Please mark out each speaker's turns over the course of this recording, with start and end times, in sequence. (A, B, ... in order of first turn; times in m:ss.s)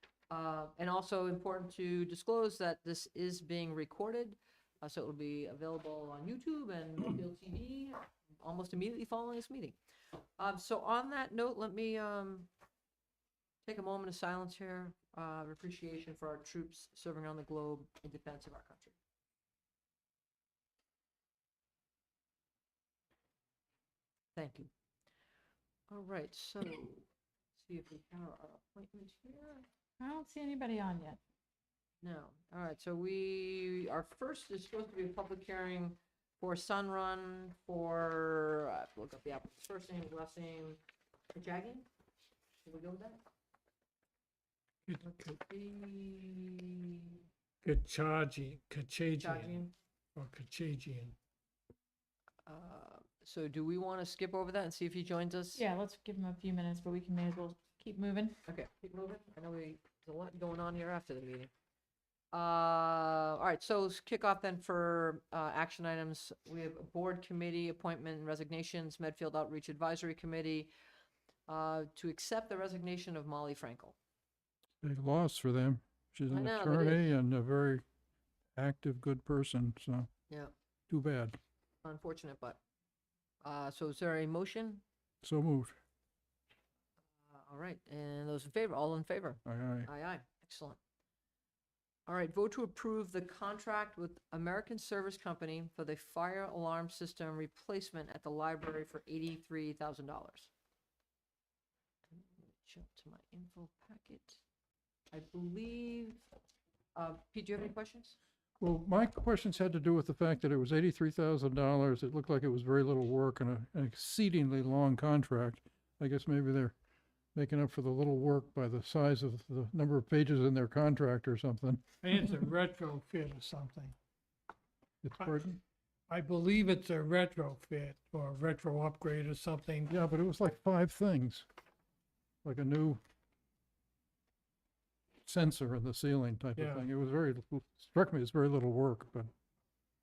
0:00.3-0:09.8 A
0:10.4-0:12.5 A
0:13.6-0:18.9 A
0:24.4-0:24.7 A
0:25.9-0:29.6 A
0:30.0-0:31.2 B
0:32.0-0:40.8 A
0:41.3-0:41.9 A
0:42.6-0:43.2 A
0:44.9-0:45.4 C
0:45.0-0:47.2 A
0:47.6-0:49.5 C
0:49.2-0:49.7 A
0:50.2-0:51.1 C
0:52.4-0:55.6 A
0:55.5-0:58.4 B
0:58.4-1:01.5 A
1:02.3-1:10.7 A
1:11.5-1:14.0 A
1:14.8-1:17.8 D
1:16.3-1:17.1 A
1:18.5-1:20.1 D
1:20.9-1:21.4 D
1:21.8-1:22.6 A
1:23.4-1:24.8 A
1:25.2-1:25.8 D
1:27.3-1:30.8 A
1:29.4-1:29.9 D
1:32.1-1:40.5 A
1:42.1-1:44.4 A
1:45.1-1:46.2 A
1:46.9-1:48.2 A
1:48.6-1:56.7 D
1:57.3-2:01.8 D
2:02.0-2:03.9 C
2:05.0-2:05.6 D
2:06.1-2:09.9 C
2:09.9-2:11.4 D
2:12.4-2:13.0 D
2:15.2-2:19.3 D
2:16.6-2:16.8 C